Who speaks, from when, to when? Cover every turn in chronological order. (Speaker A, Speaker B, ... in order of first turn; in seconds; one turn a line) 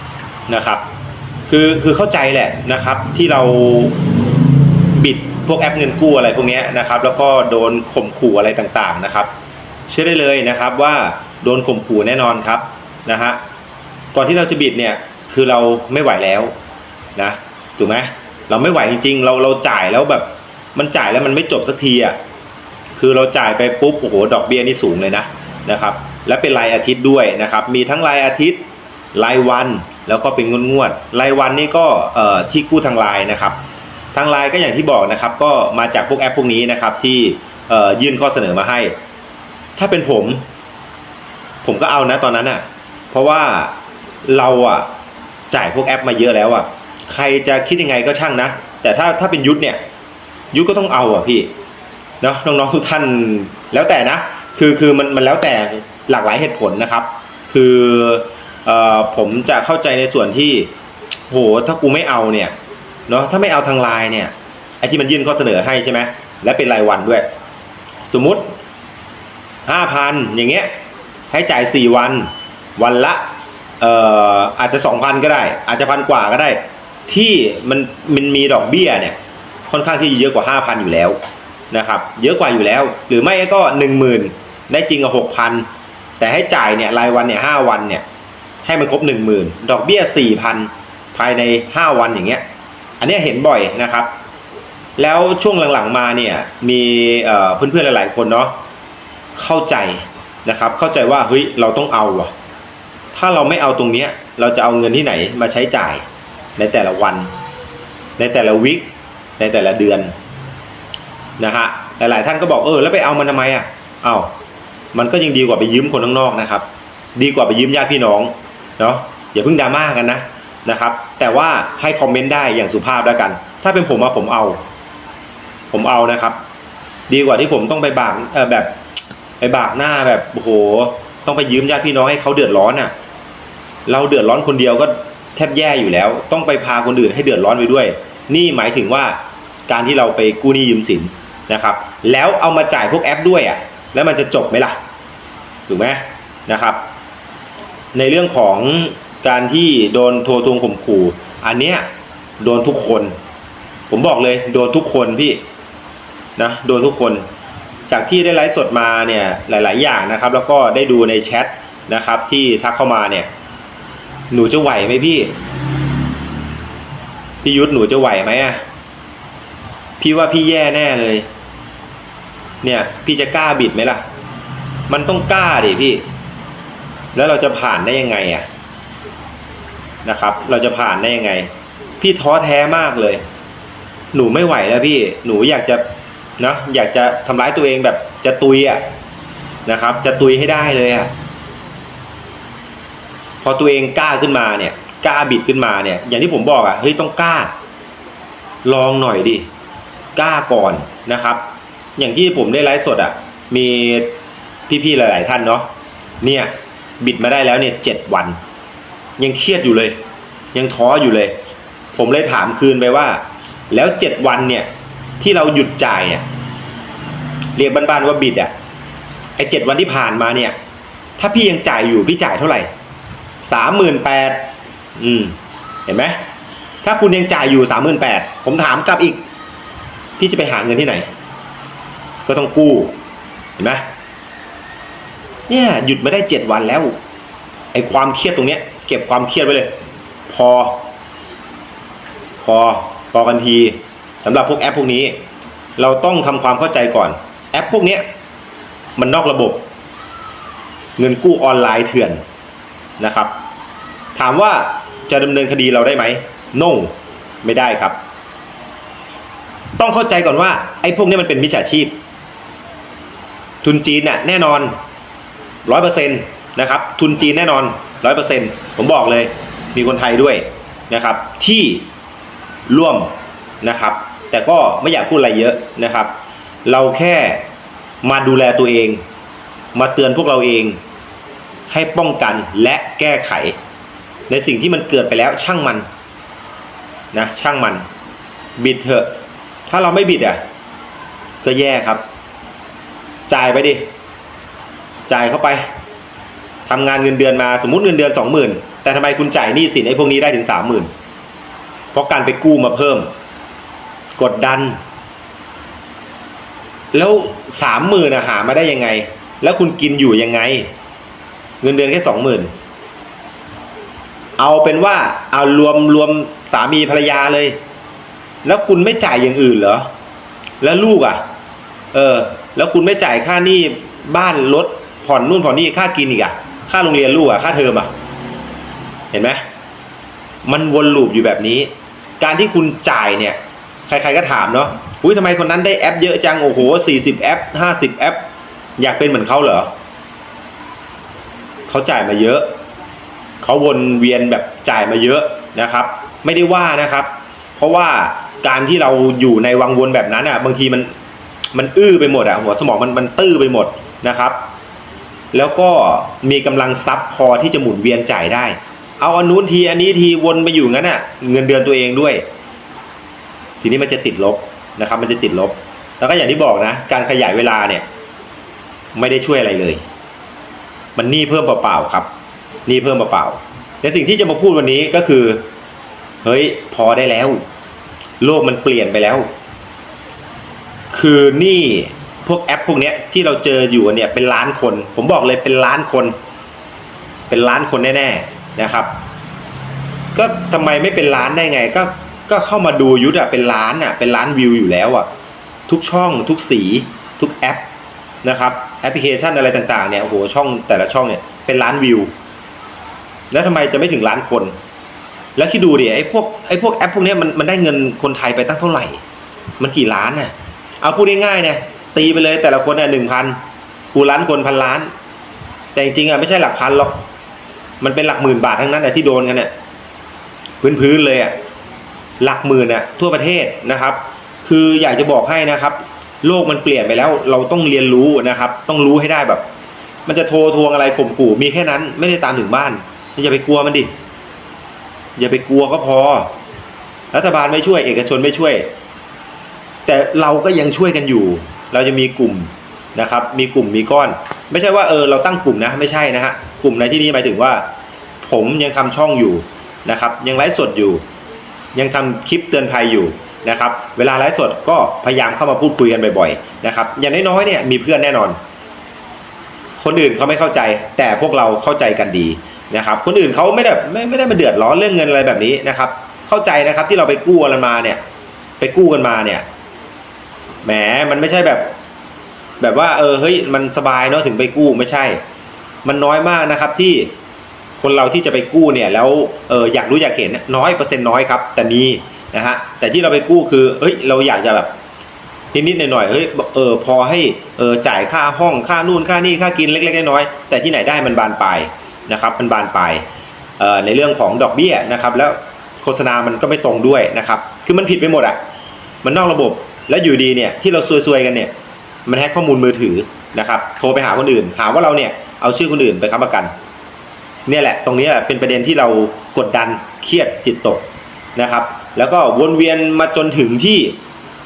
Speaker A: 0.5-0.8
Speaker A: 1.5-4.0
Speaker A: 4.9-9.3
Speaker A: 9.9-13.4
Speaker A: 14.1-16.5
Speaker A: 17.1-22.2
Speaker A: 22.9-28.6
Speaker A: 29.1-33.6
Speaker A: 34.1-38.9
Speaker A: 39.8-40.4
Speaker A: 41.6-44.9
Speaker A: 45.5-49.8
Speaker A: 50.5-51.5
Speaker A: 52.2-60.7
Speaker A: 61.3-62.5
Speaker A: 63.1-67.2
Speaker A: 68.1-68.5
Speaker A: 69.7-70.7
Speaker A: 71.3-73.2
Speaker A: 73.8-79.2
Speaker A: 79.7-81.2
Speaker A: 81.7-85.7
Speaker A: 86.2-88.0
Speaker A: 88.6-92.4
Speaker A: 93.0-94.1
Speaker A: 95.0-98.5
Speaker A: 99.3-102.3
Speaker A: 103.1-106.0
Speaker A: 106.6-107.3
Speaker A: 108.2-110.1
Speaker A: 111.4-114.3
Speaker A: 114.9-116.6
Speaker A: 117.2-124.6
Speaker A: 125.7-126.4
Speaker A: 127.1-128.7
Speaker A: 129.4-132.9
Speaker A: 133.8-144.8
Speaker A: 145.7-146.8
Speaker A: 147.9-151.8
Speaker A: 152.4-153.2
Speaker A: 153.9-155.4
Speaker A: 156.4-157.2
Speaker A: 157.9-163.3
Speaker A: 164.3-165.3
Speaker A: 167.4-168.6
Speaker A: 170.0-171.3
Speaker A: 172.6-174.0
Speaker A: 174.9-176.0
Speaker A: 177.1-178.4
Speaker A: 180.0-183.2
Speaker A: 184.1-185.8
Speaker A: 186.4-188.8
Speaker A: 189.7-191.1
Speaker A: 193.4-197.5
Speaker A: 198.6-199.5
Speaker A: 200.1-201.4
Speaker A: 202.0-204.1
Speaker A: 204.7-205.7
Speaker A: 206.2-208.4
Speaker A: 209.2-210.0
Speaker A: 210.5-211.4
Speaker A: 211.9-214.7
Speaker A: 215.2-216.2
Speaker A: 217.6-218.5
Speaker A: 219.4-220.5
Speaker A: 221.2-222.7
Speaker A: 223.4-226.2
Speaker A: 226.8-229.2
Speaker A: 230.2-231.1
Speaker A: 232.2-233.0
Speaker A: 233.6-233.8
Speaker A: 235.5-236.9
Speaker A: 237.7-239.7
Speaker A: 240.3-240.8
Speaker A: 242.4-245.2
Speaker A: 245.8-248.0
Speaker A: 248.9-249.6
Speaker A: 251.0-252.2
Speaker A: 253.0-253.3
Speaker A: 254.1-258.0
Speaker A: 259.8-262.0
Speaker A: 263.6-264.7
Speaker A: 265.6-271.9
Speaker A: 272.7-276.1
Speaker A: 276.6-277.4
Speaker A: 278.0-279.0
Speaker A: 279.7-280.8
Speaker A: 281.7-283.5
Speaker A: 284.3-285.9
Speaker A: 287.1-287.9
Speaker A: 288.6-289.1
Speaker A: 289.7-290.4
Speaker A: 291.4-292.0
Speaker A: 293.3-293.9
Speaker A: 295.1-295.7
Speaker A: 296.6-300.9
Speaker A: 301.9-303.1
Speaker A: 304.2-304.8
Speaker A: 306.9-310.7
Speaker A: 311.6-312.5
Speaker A: 314.4-317.6
Speaker A: 318.4-319.9
Speaker A: 320.6-321.2
Speaker A: 321.9-327.9
Speaker A: 329.1-329.4
Speaker A: 330.4-333.4
Speaker A: 333.9-338.2
Speaker A: 338.8-339.7
Speaker A: 341.7-342.5
Speaker A: 343.4-350.9
Speaker A: 351.5-354.4
Speaker A: 355.3-362.2
Speaker A: 363.6-367.9
Speaker A: 368.9-369.8
Speaker A: 370.9-372.1
Speaker A: 372.7-375.4
Speaker A: 376.2-377.4
Speaker A: 378.2-379.3
Speaker A: 380.9-386.1
Speaker A: 387.3-388.9
Speaker A: 390.1-395.1
Speaker A: 395.7-397.6
Speaker A: 398.2-402.1
Speaker A: 403.3-404.5
Speaker A: 405.4-409.0
Speaker A: 409.6-413.4
Speaker A: 413.9-414.9
Speaker A: 415.7-417.0
Speaker A: 417.8-419.5
Speaker A: 420.6-421.4
Speaker A: 422.2-429.4
Speaker A: 430.1-433.9
Speaker A: 435.1-436.3
Speaker A: 437.1-438.7
Speaker A: 439.9-447.6
Speaker A: 448.2-451.0
Speaker A: 451.7-458.4
Speaker A: 459.8-468.0
Speaker A: 468.6-469.4
Speaker A: 470.6-471.7
Speaker A: 472.6-475.2
Speaker A: 475.8-477.1
Speaker A: 477.8-484.7
Speaker A: 485.5-493.0
Speaker A: 493.6-498.4
Speaker A: 499.0-501.5
Speaker A: 502.1-506.5
Speaker A: 507.5-510.8
Speaker A: 511.4-514.0